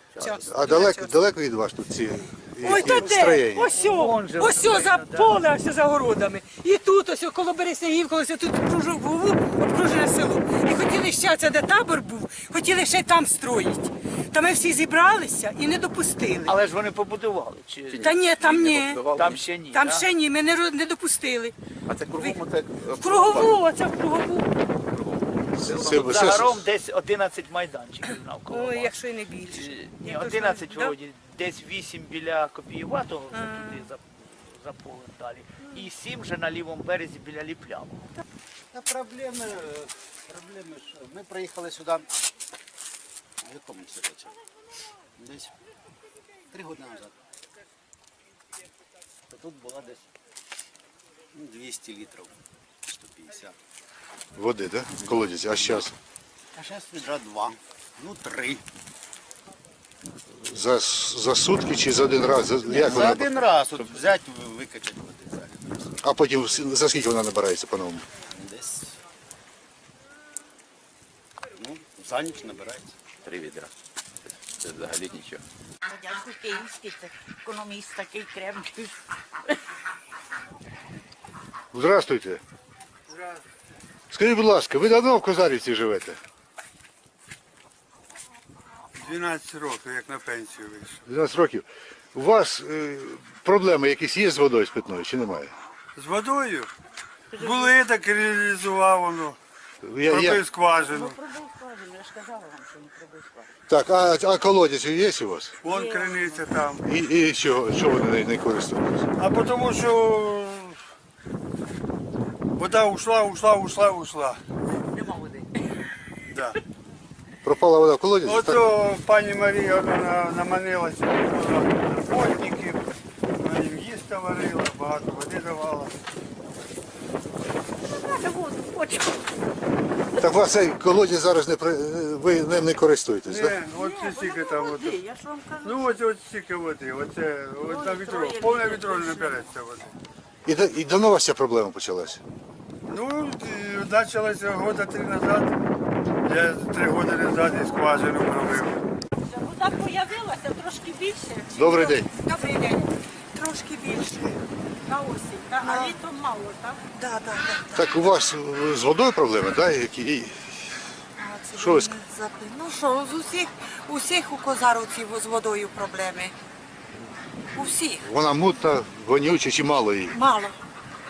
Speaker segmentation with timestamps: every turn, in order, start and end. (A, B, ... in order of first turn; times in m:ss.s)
0:00.2-0:01.2 A
0:00.4-0:03.7 B
0:02.6-0:16.5 A
0:03.7-0:05.3 C
0:16.4-0:18.2 C
0:17.9-0:19.4 D
0:17.9-0:19.1 A
0:19.1-0:20.0 C
0:19.7-0:21.5 A
0:21.9-0:23.6 D
0:22.2-0:24.5 A
0:24.9-0:26.2 D
0:25.6-0:26.7 B
0:25.7-0:38.0 C
0:28.5-0:30.9 A
0:33.3-0:33.9 A
0:38.7-0:42.0 E
0:43.4-0:44.4 E
0:45.2-0:45.5 E
0:46.5-0:47.2 E
0:49.3-0:50.1 E
0:51.3-0:53.5 E
0:54.4-0:55.9 B
0:56.5-0:58.6 E
1:00.3-1:03.3 B
1:02.6-1:06.0 E
1:06.0-1:08.1 B
1:08.3-1:09.0 E
1:11.6-1:12.9 E
1:13.2-1:13.7 D
1:14.6-1:15.4 D
1:15.8-1:19.0 F
1:21.7-1:22.4 B
1:23.1-1:23.4 G
1:24.1-1:26.2 B
1:29.0-1:31.0 G
1:31.1-1:35.5 B
1:36.0-1:36.7 G
1:37.3-1:37.8 F
1:37.4-1:39.4 G
1:39.8-1:40.4 B
1:40.0-1:41.2 G
1:40.8-1:43.5 F
1:43.7-1:45.6 B
1:45.6-1:46.8 G
1:45.6-1:46.5 F
1:46.8-1:49.1 B
1:49.2-1:50.8 G
1:52.6-1:54.4 G
1:54.9-1:55.6 F
1:56.3-1:56.6 G
1:57.4-1:58.6 B
1:58.2-2:02.8 G
2:03.4-2:05.9 G
2:07.8-2:09.3 F
2:10.2-2:13.6 B
2:13.3-2:15.0 G
2:13.7-2:15.9 F
2:15.6-2:19.9 G
2:17.6-2:19.5 F
2:20.4-2:22.2 B
2:22.9-2:25.5 G
2:26.2-2:28.8 G
2:27.5-2:28.0 F
2:29.1-2:32.9 F
2:31.5-2:32.1 B
2:32.2-2:32.8 H
2:33.3-2:34.4 H
2:34.8-2:36.8 F
2:35.6-2:36.0 H
2:36.9-2:38.0 H
2:37.7-2:40.7 B
2:41.2-2:46.3 H
2:41.6-2:41.9 B
2:47.5-2:48.1 H
2:48.0-2:50.2 B
2:50.1-2:50.6 H